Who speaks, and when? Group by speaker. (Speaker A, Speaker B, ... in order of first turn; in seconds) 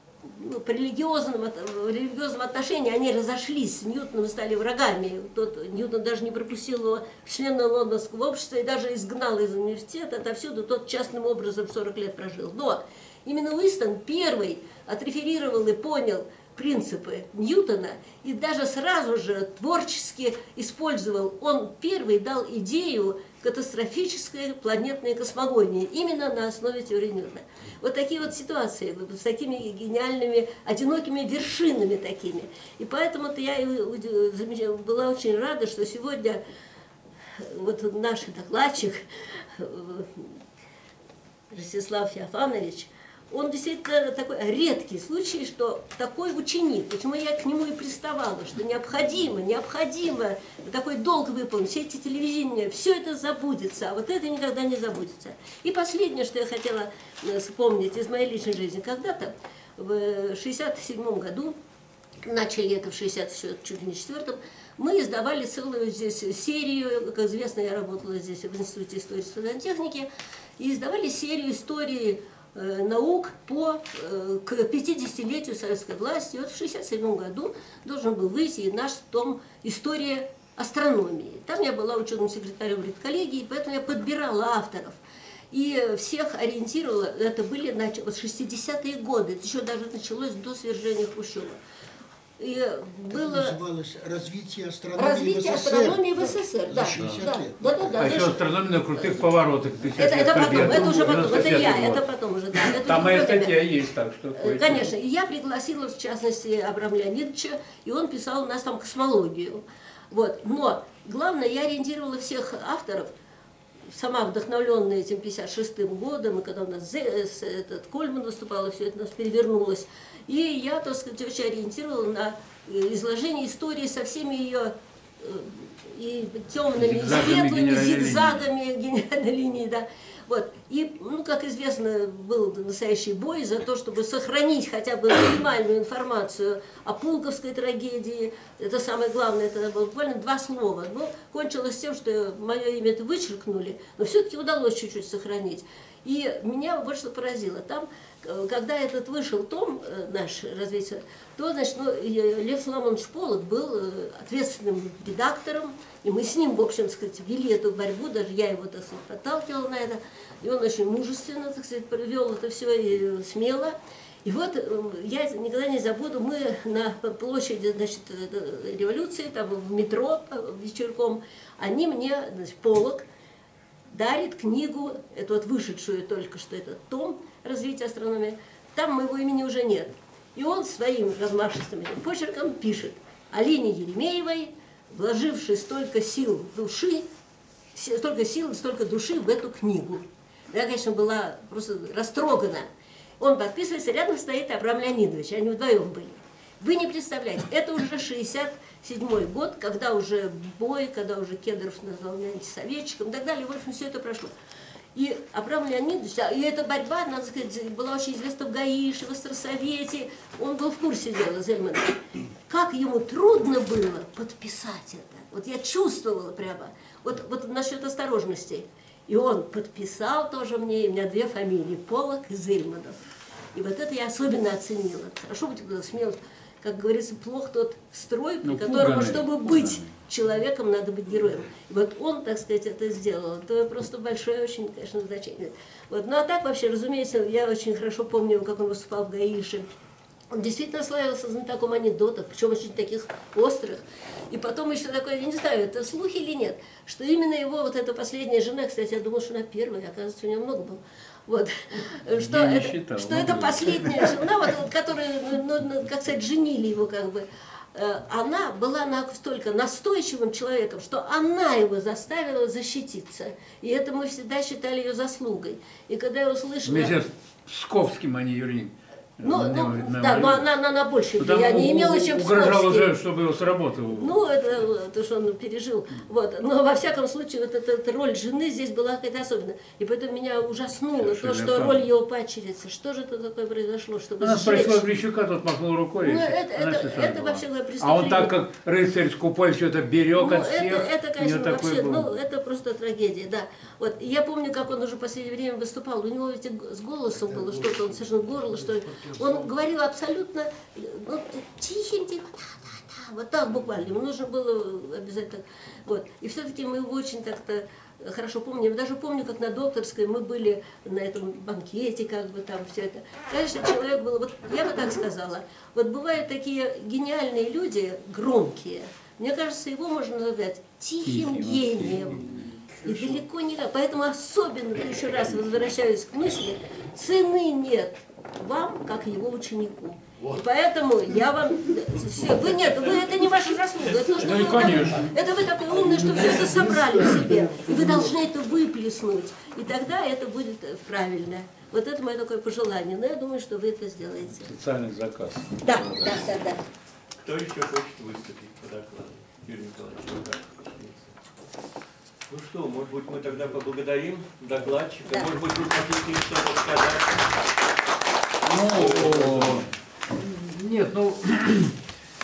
Speaker A: 0.2-36.4, 37.4-39.0, 39.5-40.3, 41.5-61.6, 62.2-85.0, 85.5-91.6, 92.4-93.6, 94.9-99.3, 100.0-103.6, 104.4-113.1, 113.9-173.1, 173.9-187.1, 187.7-204.3, 204.9-212.0, 212.5-223.0, 223.5-239.7, 240.3-267.0, 269.2-272.9, 274.0-284.9, 286.0-288.3, 290.1-322.2, 322.8-344.5, 345.6-346.6
Speaker B: 93.1-98.3
Speaker C: 98.0-102.0, 102.5-104.9, 126.7-128.4, 228.4-229.8, 252.1-254.1, 266.6-270.4, 271.2-274.1, 280.9-281.8, 284.2-292.1, 321.0-322.5, 334.1-335.1, 344.4-346.3, 358.4-361.8
Speaker D: 347.2-351.1, 352.3-357.2, 358.8-359.6